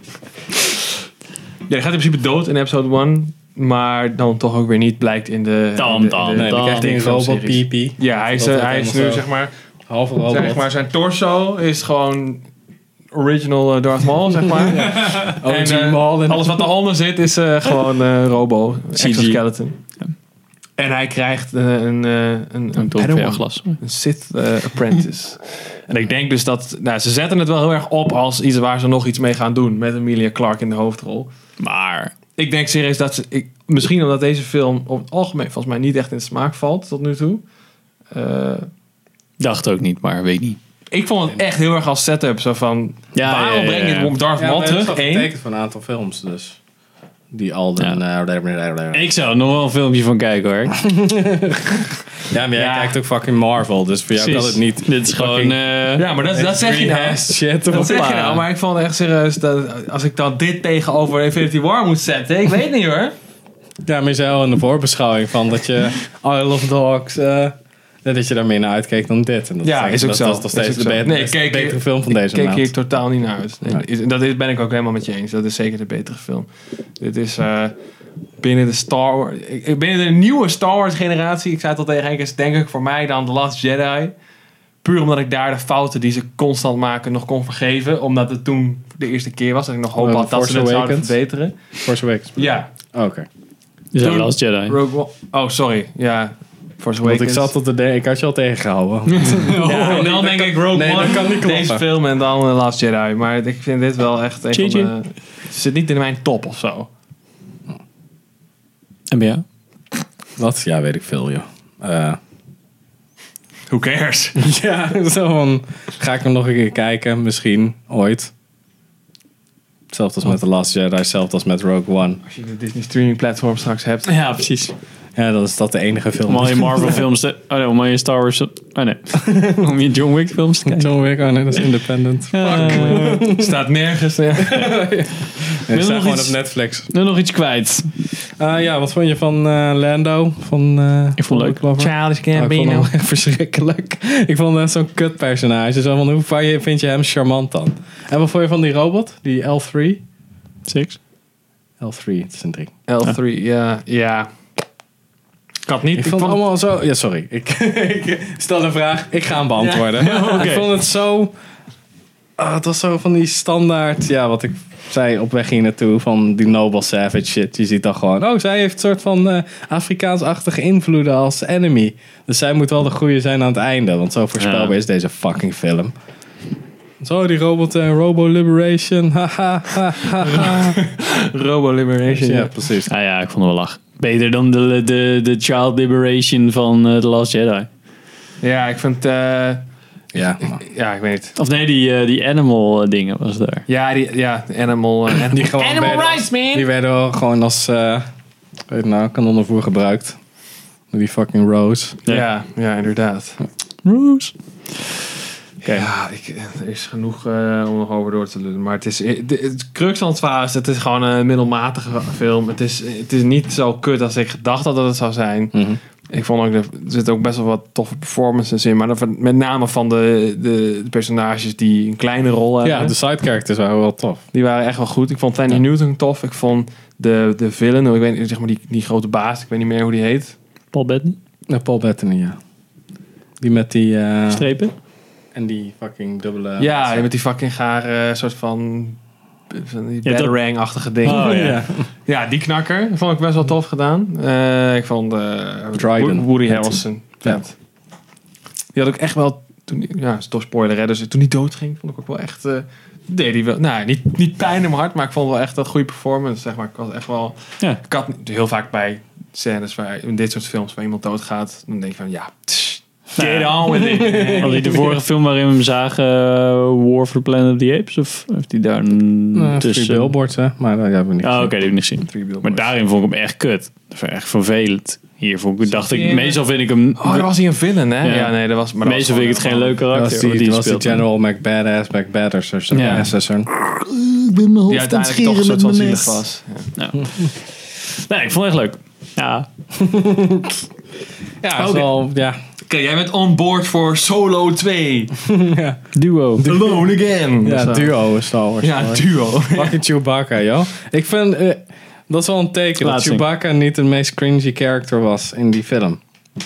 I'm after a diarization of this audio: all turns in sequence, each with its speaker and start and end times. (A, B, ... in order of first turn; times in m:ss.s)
0:01.7-0:09.5 A
0:05.8-0:06.9 B
0:06.3-0:09.2 C
0:09.9-0:10.6 C
0:10.3-0:12.4 A
0:13.1-0:19.8 A
0:14.5-0:16.7 C
0:18.9-0:19.4 B
0:20.8-0:31.3 A
0:22.8-0:23.8 B
0:31.6-0:32.1 B
0:32.4-0:37.4 A
0:38.1-0:38.7 A
0:39.4-0:40.6 B
0:40.9-0:45.3 A
0:43.1-0:44.1 B
0:44.4-0:46.6 C
0:47.3-0:49.1 C
0:48.9-0:50.8 B
0:50.8-0:55.6 C
0:52.5-0:52.9 A
0:54.2-0:56.1 B
0:56.0-1:03.1 A
0:56.3-0:58.1 C
0:57.7-0:58.4 B
1:03.8-1:12.7 C
1:09.6-1:17.7 A
1:18.4-1:24.1 A
1:24.8-1:31.6 A
1:30.0-1:31.1 C
1:31.8-1:33.3 C
1:32.4-1:32.7 A
1:33.9-1:34.8 B
1:34.0-1:37.5 A
1:37.0-1:41.8 C
1:39.1-1:40.1 B
1:39.6-1:46.9 A
1:44.5-1:44.9 B
1:49.1-1:49.4 B
1:50.4-1:52.2 C
1:53.7-1:54.4 A
1:54.4-1:58.3 C
1:59.9-2:02.2 C
2:02.3-2:04.1 A
2:04.0-2:04.7 B
2:05.2-2:07.0 C
2:06.3-2:10.9 B
2:10.7-2:13.5 C
2:12.3-2:13.2 B
2:12.4-2:14.9 A
2:14.4-2:16.9 C
2:15.7-2:16.4 B
2:16.9-2:17.9 B
2:18.2-2:30.0 C
2:21.2-2:21.6 B
2:21.8-2:22.9 A
2:30.7-2:31.0 B
2:31.8-2:32.7 C
2:32.9-2:34.3 A
2:35.6-2:36.4 A
2:36.0-2:41.3 C
2:40.0-2:40.7 B
2:42.4-2:55.9 C
2:54.4-2:54.8 B
2:57.0-3:00.8 C
3:00.2-3:02.5 A
3:02.1-3:02.9 C
3:02.9-3:07.7 B
3:08.4-3:09.6 A
3:10.1-3:10.6 C
3:10.2-3:11.3 A
3:11.4-3:13.6 B
3:13.7-3:16.7 A
3:15.3-3:18.0 C
3:18.7-3:20.2 C
3:20.9-3:22.0 C
3:22.0-3:23.4 A
3:23.8-3:24.3 B
3:25.6-3:42.9 A
3:35.5-3:35.8 C
3:42.6-3:44.2 C
3:44.3-3:50.3 A
3:50.7-3:51.2 B
3:51.5-3:52.4 C
3:53.4-3:54.5 C
3:54.3-3:54.7 B
3:55.3-3:57.1 C
3:56.6-3:59.0 A
3:59.5-4:01.5 A
4:00.0-4:00.4 B
4:01.0-4:01.6 B
4:01.0-4:01.9 C
4:02.0-4:07.5 A
4:05.7-4:07.4 C
4:08.7-4:24.9 A
4:23.2-4:30.1 B
4:23.7-4:24.8 C
4:29.3-4:31.5 C
4:31.2-4:37.3 B
4:32.1-4:32.7 A
4:35.7-4:36.4 A
4:37.0-4:39.8 A
4:38.0-4:41.0 B
4:39.9-4:43.5 C
4:42.7-4:46.2 B
4:44.7-4:46.7 A
4:46.8-4:49.5 B
4:49.7-4:50.6 C
4:51.4-4:52.4 C
4:51.6-4:51.9 B
4:52.7-4:55.2 A
4:55.2-4:55.9 C
4:55.9-4:56.5 B
4:56.4-4:56.8 C
4:56.4-4:58.0 A
4:57.4-5:06.0 C
4:58.6-4:59.8 A
5:02.8-5:03.2 B